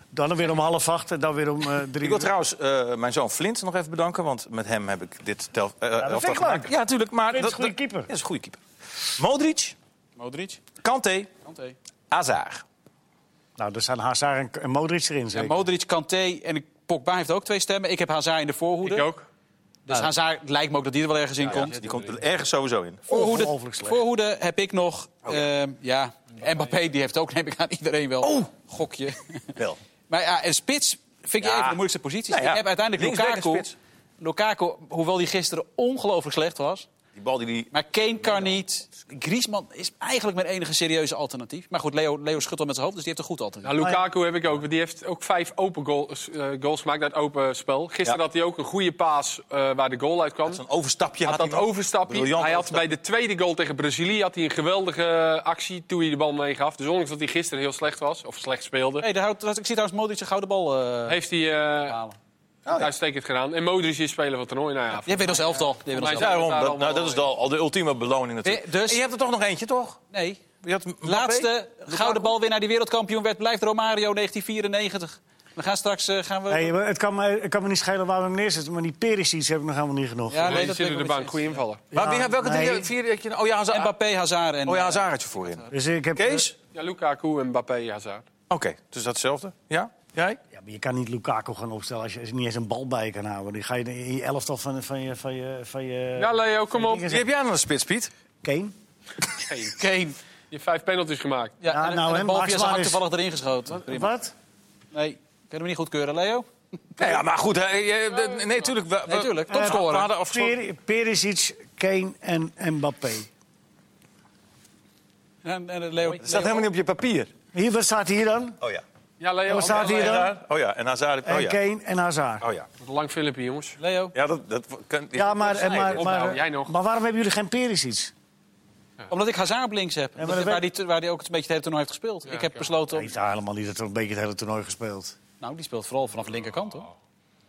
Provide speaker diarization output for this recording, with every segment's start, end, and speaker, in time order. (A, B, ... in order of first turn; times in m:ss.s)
0:00.1-0:02.3 A
0:02.0-0:09.8 B
0:06.0-0:06.8 A
0:07.3-0:08.1 A
0:10.2-0:10.6 C
0:10.8-0:11.3 B
0:11.4-0:11.8 C
0:12.1-0:12.6 B
0:13.6-0:15.7 A
0:15.3-0:19.1 C
0:18.8-0:19.2 D
0:19.9-0:21.8 C
0:21.4-0:22.2 D
0:21.5-0:23.1 B
0:23.1-0:24.0 A
0:23.1-0:29.5 C
0:28.2-0:28.5 B
0:30.1-0:33.7 C
0:31.4-0:33.8 B
0:34.2-0:36.9 C
0:37.1-0:38.6 B
0:37.7-0:43.8 C
0:43.6-0:50.6 D
0:50.5-0:52.9 B
0:51.2-0:59.1 D
0:59.0-1:01.2 C
1:01.1-1:02.0 D
1:01.9-1:02.2 C
1:02.7-1:02.9 B
1:02.7-1:07.3 D
1:05.1-1:06.4 C
1:06.1-1:10.0 B
1:08.4-1:09.0 C
1:10.1-1:10.4 C
1:10.6-1:12.3 B
1:11.0-1:16.7 C
1:16.5-1:20.7 A
1:20.3-1:21.6 C
1:20.4-1:21.9 D
1:21.9-1:22.9 A
1:21.9-1:24.0 B
1:23.7-1:25.7 C
1:24.7-1:25.6 B
1:25.7-1:26.5 A
1:26.2-1:26.5 B
1:26.7-1:28.2 D
1:28.5-1:30.4 B
1:30.5-1:37.3 A
1:36.2-1:37.1 D
1:37.1-1:38.1 B
1:38.4-1:38.7 A
1:39.4-1:39.8 D
1:39.8-1:40.2 C
1:40.5-1:41.6 D
1:41.6-1:44.1 C
1:41.7-1:43.0 A
1:43.7-1:44.3 A
1:44.9-1:46.5 C
1:47.0-1:50.6 B
1:48.2-1:48.7 D
1:49.1-1:50.1 C
1:49.5-1:53.3 A
1:55.4-1:56.7 C
1:56.2-1:57.3 B
1:57.5-1:58.6 A
1:59.2-2:00.3 D
1:59.5-2:00.4 A
1:59.6-2:01.6 B
2:01.2-2:02.5 A
2:02.4-2:02.7 B
2:02.8-2:03.8 D
2:03.8-2:04.2 C
2:04.1-2:06.2 B
2:05.1-2:08.1 A
2:05.5-2:06.8 D
2:09.1-2:13.1 C
2:10.2-2:10.7 A
2:12.3-2:12.7 D
2:12.9-2:15.2 A
2:15.4-2:16.9 C